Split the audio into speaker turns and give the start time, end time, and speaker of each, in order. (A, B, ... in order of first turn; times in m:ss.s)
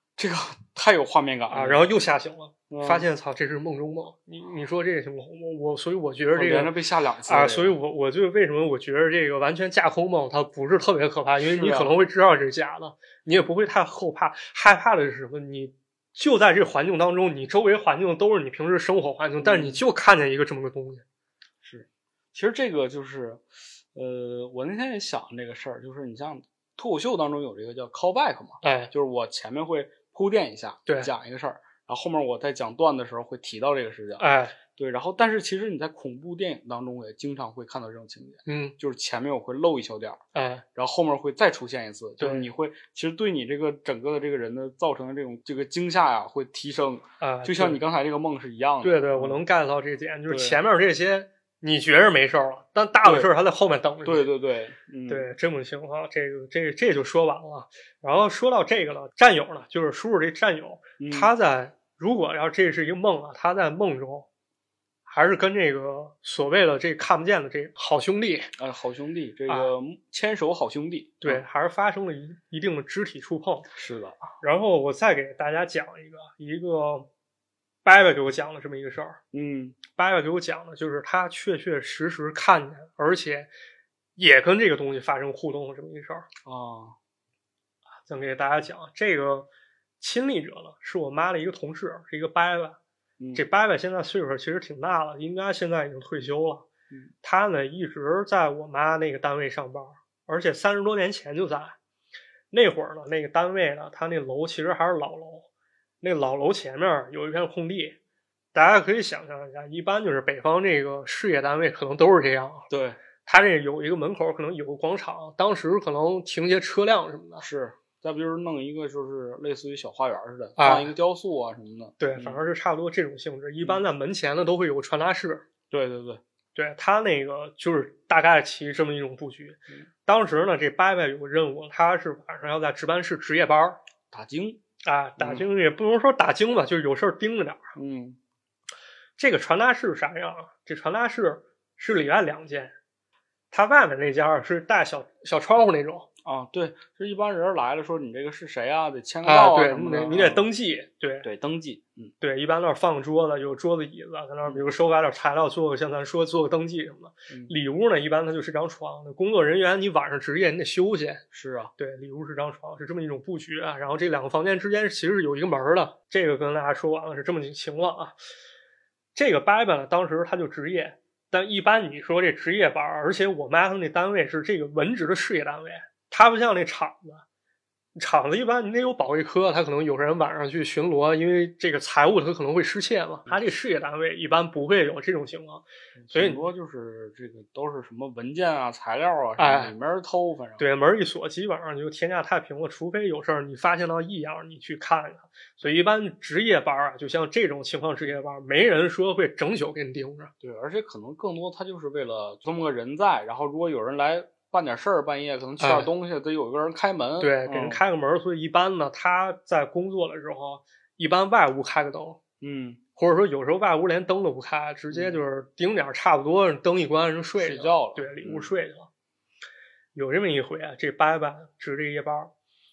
0:00.2-0:01.9 A
0:01.5-0:06.7 B
0:02.7-0:03.1 A
0:06.3-0:07.8 A
0:07.3-0:21.0 B
0:11.4-0:12.0 A
0:19.4-0:19.8 A
0:21.6-0:23.4 A
0:23.9-0:40.2 A
0:28.6-0:28.9 B
0:34.2-0:34.6 B
0:38.5-0:38.7 B
0:40.4-0:40.6 B
0:40.8-0:49.4 A
0:42.2-0:42.5 B
0:47.2-0:47.8 B
0:48.8-0:54.3 B
0:50.3-0:50.6 A
0:53.0-0:53.3 A
0:54.0-0:55.3 A
0:55.1-1:04.3 B
1:01.0-1:01.3 A
1:05.1-1:08.5 B
1:08.6-1:11.4 A
1:11.2-1:13.7 B
1:13.8-1:14.3 A
1:14.4-1:17.1 B
1:17.8-1:19.2 B
1:19.3-1:19.8 A
1:19.9-1:23.5 B
1:24.2-1:26.3 B
1:26.4-1:27.0 A
1:28.1-1:29.5 B
1:30.0-1:32.8 B
1:33.2-1:33.4 A
1:33.4-1:36.7 B
1:37.2-1:41.8 B
1:42.5-1:45.5 B
1:46.0-1:48.0 B
1:48.5-1:52.7 B
1:52.7-1:53.0 A
1:53.2-1:57.4 B
1:57.4-2:02.4 A
2:00.6-2:00.9 B
2:02.0-2:05.4 B
2:05.7-2:06.2 A
2:06.6-2:13.8 B
2:14.1-2:14.6 A
2:14.8-2:17.7 B
2:15.2-2:15.4 A
2:17.8-2:18.2 A
2:19.2-2:22.8 B
2:23.5-2:26.1 B
2:26.2-2:30.5 A
2:29.2-2:31.3 B
2:31.2-2:32.1 A
2:32.2-2:41.2 B
2:37.3-2:37.5 A
2:41.3-2:41.7 A
2:41.8-2:48.2 B
2:49.2-2:57.2 B
2:58.0-3:06.5 B
3:06.0-3:10.6 A
3:09.4-3:09.8 B
3:10.6-3:20.3 B
3:20.4-3:27.8 A
3:25.6-3:25.9 B
3:27.2-3:32.2 B
3:32.4-3:32.8 A
3:33.0-3:38.9 B
3:34.9-3:35.2 A
3:37.4-3:38.5 A
3:39.9-3:42.3 B